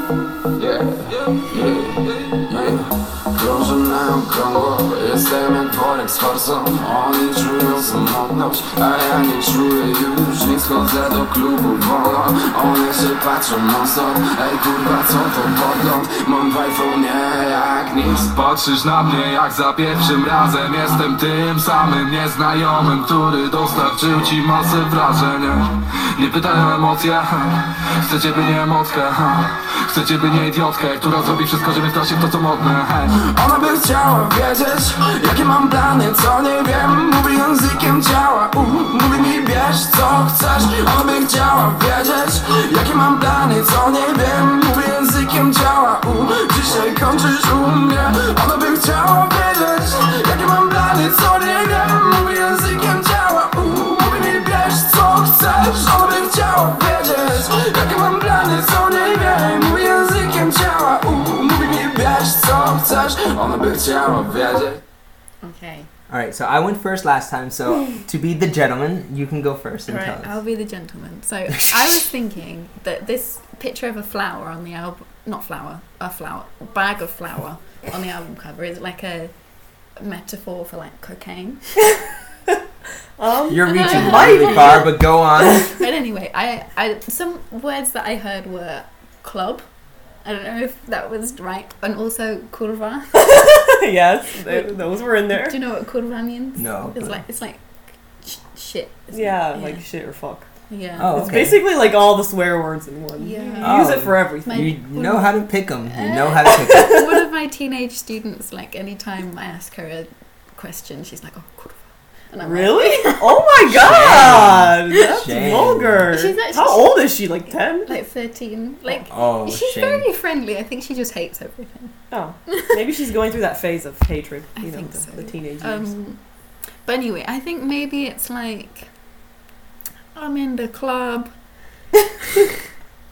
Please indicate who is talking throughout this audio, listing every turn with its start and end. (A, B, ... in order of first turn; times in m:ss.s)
0:00.6-0:18.3 A
0:18.2-0:33.2 B
0:33.2-1:04.8 A
1:05.4-1:05.9 C
1:06.1-1:10.4 D
1:09.9-1:19.3 C
1:11.5-1:12.0 D
1:20.0-1:21.8 C
1:23.2-1:25.0 E
1:23.5-1:25.8 D
1:23.7-1:24.8 C
1:25.5-1:29.7 C
1:30.2-1:33.6 C
1:33.2-1:35.6 E
1:34.4-1:34.7 C
1:35.3-1:39.8 C
1:36.6-1:37.2 D
1:39.1-1:40.5 E
1:40.7-1:41.2 C
1:41.0-1:41.6 D
1:41.1-1:44.7 E
1:43.2-1:43.9 C
1:43.6-1:47.1 D
1:44.5-1:53.4 C
1:46.5-1:47.1 E
1:52.4-1:57.9 E
1:53.6-1:56.1 D
1:56.1-2:02.7 C
1:58.9-2:00.1 D
2:02.1-2:05.9 E
2:04.6-2:06.2 C
2:06.8-2:08.9 C
2:10.2-2:11.3 C